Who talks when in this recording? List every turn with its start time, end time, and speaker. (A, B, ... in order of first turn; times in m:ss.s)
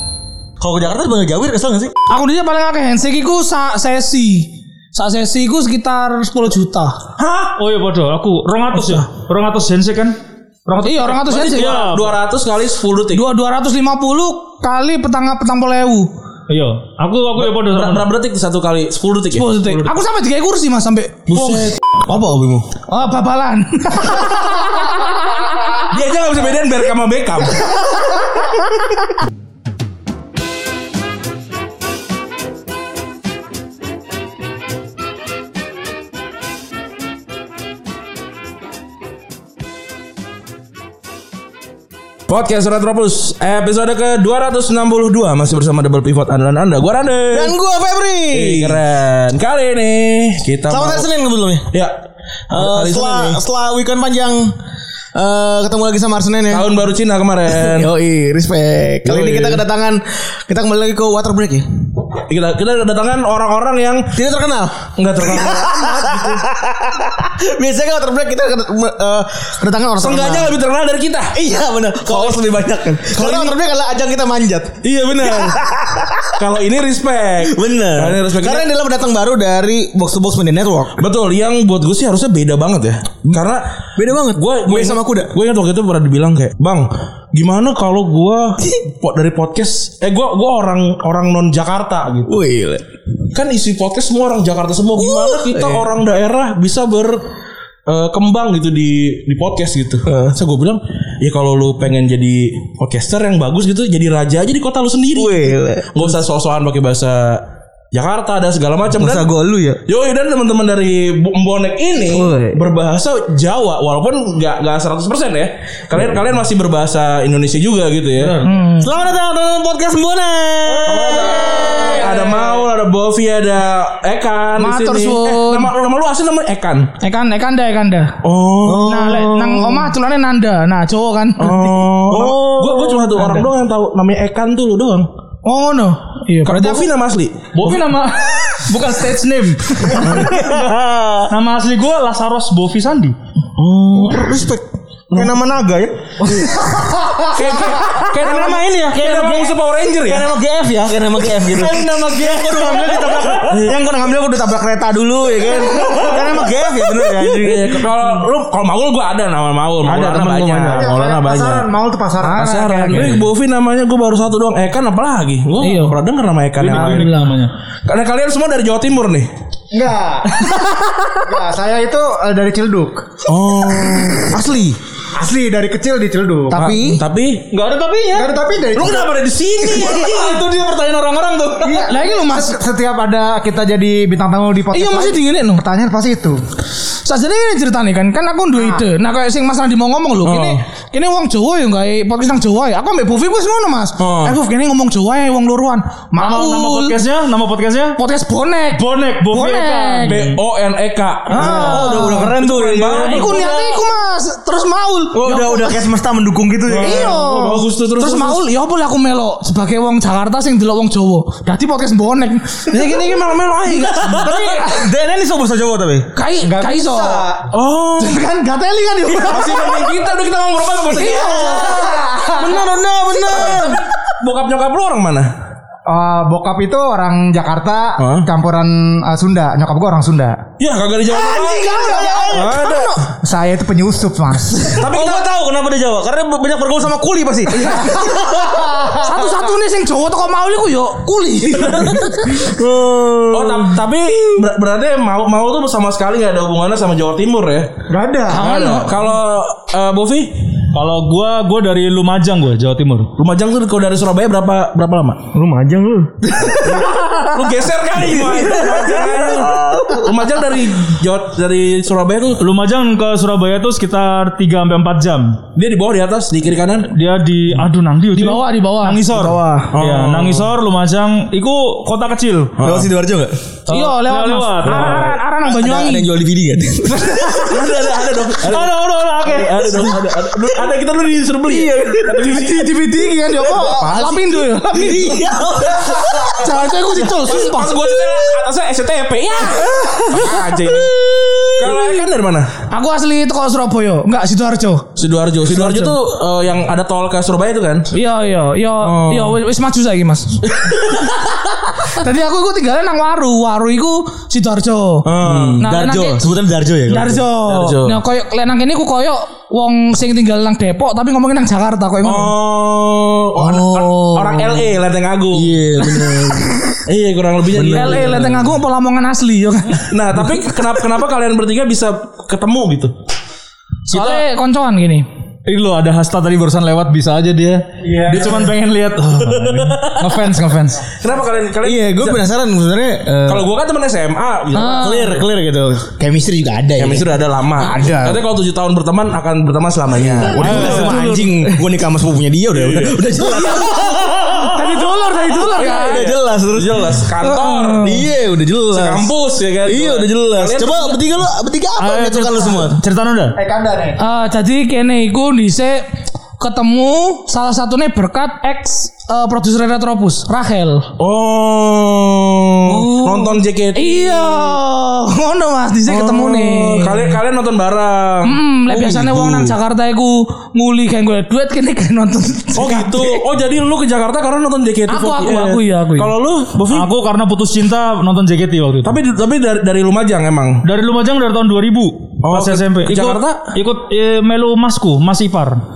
0:00.6-0:01.9 A
0:02.1-0:07.0 B
0:07.2-0:07.6 C
0:07.6-0:12.2 D
0:10.8-0:11.9 B
0:11.3-0:13.2 C
0:13.1-0:16.1 B
0:16.5-0:18.1 D
0:17.4-0:19.7 C
0:19.3-0:21.2 B
0:21.3-0:21.8 C
0:21.4-0:21.7 D
0:22.1-0:22.7 A
0:22.9-0:24.9 B
0:25.9-0:27.8 C
0:42.3-0:47.6 C
0:47.3-0:48.8 A
0:48.3-0:51.1 C
0:50.7-0:51.7 A
0:52.5-0:53.4 C
0:52.5-0:54.5 A
0:55.2-0:56.7 A
0:56.5-0:57.9 C
0:57.5-1:01.6 A
0:59.0-0:59.6 C
1:02.3-1:04.1 C
1:04.1-1:10.5 A
1:05.0-1:06.4 C
1:10.0-1:11.4 C
1:11.4-1:16.4 A
1:12.1-1:12.5 C
1:13.1-1:13.6 C
1:14.8-1:15.6 C
1:16.4-1:18.7 C
1:17.4-1:21.0 A
1:21.0-1:23.7 C
1:24.0-1:25.3 A
1:24.4-1:32.3 C
1:32.3-1:32.8 A
1:33.3-1:37.2 C
1:35.0-1:35.9 A
1:37.9-1:47.4 C
1:40.1-1:40.4 A
1:45.2-1:46.2 A
1:47.9-1:49.3 C
1:48.9-1:49.8 A
1:49.9-1:58.4 C
1:52.0-1:52.6 A
1:58.2-2:02.6 A
1:58.4-1:58.9 B
2:00.8-2:06.9 C
2:04.6-2:05.7 B
2:07.0-2:08.1 B
2:08.2-2:08.9 C
2:08.7-2:09.9 A
2:08.8-2:11.7 B
2:11.4-2:15.1 C
2:12.1-2:13.4 A
2:15.4-2:16.9 B
2:16.4-2:17.7 C
2:17.5-2:20.7 D
2:20.0-2:21.3 A
2:21.3-2:23.2 D
2:23.6-2:38.2 A
2:25.1-2:25.4 C
2:27.3-2:30.3 C
2:31.6-2:31.8 C
2:31.8-2:33.5 D
2:33.5-2:33.8 C
2:37.2-2:41.7 C
2:39.8-2:40.9 A
2:40.7-2:43.1 E
2:42.2-2:43.2 B
2:42.4-2:47.1 C
2:45.6-2:46.0 B
2:46.6-2:47.5 D
2:46.6-2:47.3 B
2:47.9-2:49.3 C
2:49.7-2:50.6 E
2:51.2-2:53.2 E
2:53.3-2:54.4 C
2:53.3-2:54.8 A
2:55.2-2:56.8 E
2:56.5-2:57.0 A
2:56.5-2:57.5 C
2:57.5-2:58.3 D
2:58.1-2:59.1 E
2:58.7-3:00.4 C
2:59.8-3:01.8 D
3:01.6-3:06.4 E
3:01.7-3:02.6 B
3:04.7-3:05.6 B
3:07.0-3:17.0 B
3:08.6-3:08.8 E
3:10.2-3:10.6 C
3:14.0-3:14.4 C
3:16.2-3:18.0 D
3:18.0-3:20.3 B
3:18.7-3:20.4 D
3:20.1-3:23.4 C
3:21.3-3:22.3 B
3:21.3-3:23.8 A
3:22.9-3:25.9 B
3:25.1-3:27.2 A
3:26.7-3:28.4 C
3:26.8-3:34.7 B
3:32.7-3:34.6 C
3:34.0-3:36.1 A
3:36.2-3:37.2 B
3:36.4-3:37.5 E
3:37.5-3:38.2 C
3:38.0-3:39.9 B
3:39.1-3:45.3 C
3:40.9-3:42.3 B
3:41.6-3:42.3 E
3:42.4-3:43.8 A
3:45.9-3:50.4 E
3:48.0-3:48.3 C
3:50.6-3:53.0 C
3:51.1-3:53.1 B
3:52.0-3:52.4 A
3:53.2-3:54.9 E
3:54.8-3:55.4 C
3:54.8-3:59.0 A
3:57.6-3:58.1 B
3:57.8-3:58.9 E
3:58.9-4:02.1 B
4:01.6-4:03.8 A
4:01.6-4:02.0 C
4:03.3-4:07.7 C
4:07.9-4:08.5 E
4:08.3-4:09.0 B
4:08.4-4:10.3 C
4:10.7-4:13.1 D
4:13.2-4:15.2 C
4:15.3-4:20.4 A
4:16.6-4:22.4 C
4:22.4-4:25.4 D
4:25.6-4:26.9 C
4:26.9-4:32.6 D
4:28.1-4:29.1 B
4:29.1-4:29.7 A
4:29.7-4:30.5 C
4:32.6-4:32.9 C
4:32.6-4:33.4 A
4:33.7-4:35.2 D
4:33.7-4:36.1 B
4:34.7-4:35.1 C
4:35.4-4:37.9 A
4:37.4-4:42.7 C
4:38.5-4:40.6 A
4:38.5-4:39.4 D
4:41.5-4:42.6 A
4:42.3-4:45.2 B
4:43.3-4:47.1 A
4:43.6-4:44.1 E
4:46.3-4:47.8 B
4:47.0-4:50.9 C
4:49.9-4:51.8 A
4:51.6-4:52.5 C
4:52.7-4:54.9 B
4:55.0-4:57.9 C
4:57.9-5:00.4 B
4:58.8-4:59.4 C
5:00.5-5:01.3 C
5:01.9-5:05.1 B
5:05.1-5:05.6 C
5:05.2-5:07.2 A
5:05.6-5:06.2 B
5:06.9-5:12.3 B
5:07.5-5:08.0 C
5:12.0-5:15.6 C
5:13.4-5:14.7 A
5:15.3-5:16.8 A
5:16.9-5:18.5 C
5:17.5-5:18.2 A
5:17.7-5:19.9 B
5:19.8-5:22.9 C
5:23.9-5:25.1 B
5:23.9-5:24.2 D
5:25.5-5:30.6 D
5:27.8-5:28.4 E
5:30.0-5:30.8 E
5:31.0-5:32.2 C
5:31.6-5:33.5 A
5:33.3-5:35.0 C
5:34.5-5:35.2 B
5:34.6-5:38.0 A
5:36.8-5:40.8 C
5:37.6-5:38.0 E
5:39.9-5:47.0 A
5:40.4-5:41.0 D
5:40.4-5:41.6 B
5:42.5-5:43.6 C
5:43.4-5:46.1 B
5:45.6-5:48.0 C
5:47.2-5:48.0 B
5:47.8-5:49.1 A
5:48.7-5:51.0 C
5:49.6-5:52.8 A
5:51.8-5:53.4 D
5:53.4-5:54.0 E
5:54.0-5:55.8 B
5:56.4-6:00.9 B
6:01.0-6:04.6 C
6:02.7-6:03.4 A
6:03.8-6:07.2 B
6:05.9-6:09.6 C
6:08.2-6:13.2 B
6:12.6-6:16.9 C
6:14.9-6:16.1 B
6:16.7-6:19.0 D
6:18.8-6:20.6 C
6:20.6-6:25.6 D
6:22.2-6:23.5 C